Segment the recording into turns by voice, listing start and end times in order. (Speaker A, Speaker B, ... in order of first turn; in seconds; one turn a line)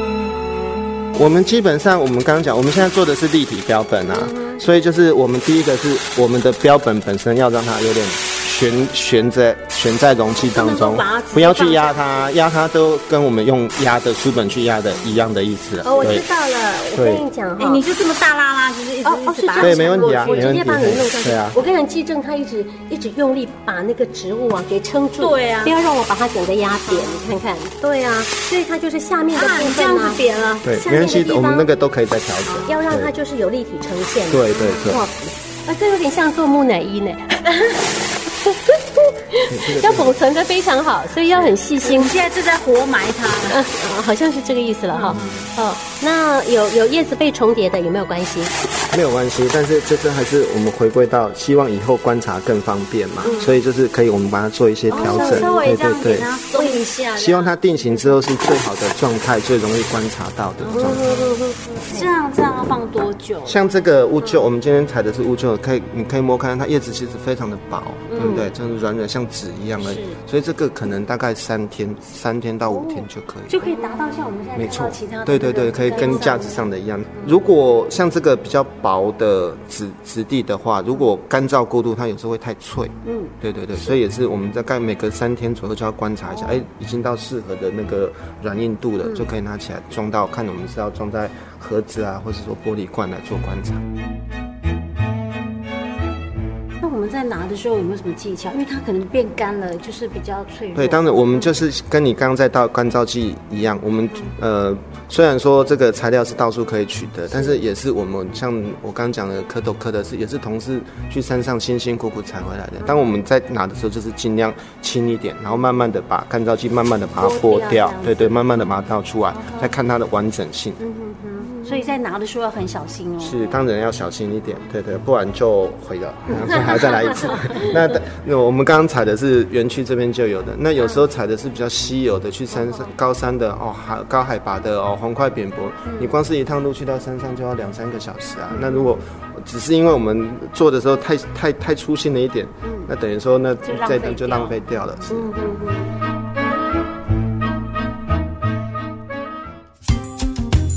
Speaker A: 1.1-16.2
Speaker B: 4.1-4.6
Speaker B: 10.5-11.8
Speaker C: 11.6-11.8
Speaker B: 15.8-17.9
Speaker A: 16.9-17.2
Speaker C: 17.6-20.6
Speaker B: 19.0-31.7
Speaker A: 19.6-21.6
Speaker C: 25.2-25.7
Speaker C: 29.4-30.2
Speaker A: 30.6-33.1
Speaker B: 32.6-37.6
Speaker A: 34.3-35.0
Speaker B: 38.4-42.1
Speaker A: 39.5-40.2
Speaker A: 41.3-41.6
Speaker C: 41.8-43.6
Speaker B: 43.5-48.5
Speaker A: 44.9-45.5
Speaker A: 48.9-56.3
Speaker B: 53.2-53.6
Speaker B: 54.9-55.6
Speaker C: 54.9-56.8
Speaker B: 56.5-57.5
Speaker A: 57.1-61.4
Speaker B: 60.6-62.0
Speaker C: 61.8-63.6
Speaker A: 63.5-73.7
Speaker B: 64.2-64.5
Speaker B: 68.1-68.5
Speaker C: 69.8-70.2
Speaker C: 73.5-76.6
Speaker A: 74.5-93.8
Speaker B: 75.9-76.3
Speaker B: 83.0-83.9
Speaker B: 89.0-89.3
Speaker C: 96.8-101.2
Speaker A: 100.7-120.8
Speaker B: 112.8-113.1
Speaker C: 117.2-118.7
Speaker C: 119.3-119.9
Speaker B: 120.8-121.9
Speaker C: 121.6-123.3
Speaker A: 123.2-145.6
Speaker B: 126.3-127.6
Speaker B: 130.8-131.0
Speaker B: 132.5-132.9
Speaker B: 135.9-136.1
Speaker B: 138.5-138.9
Speaker B: 142.6-142.9
Speaker C: 143.6-145.1
Speaker B: 145.1-145.9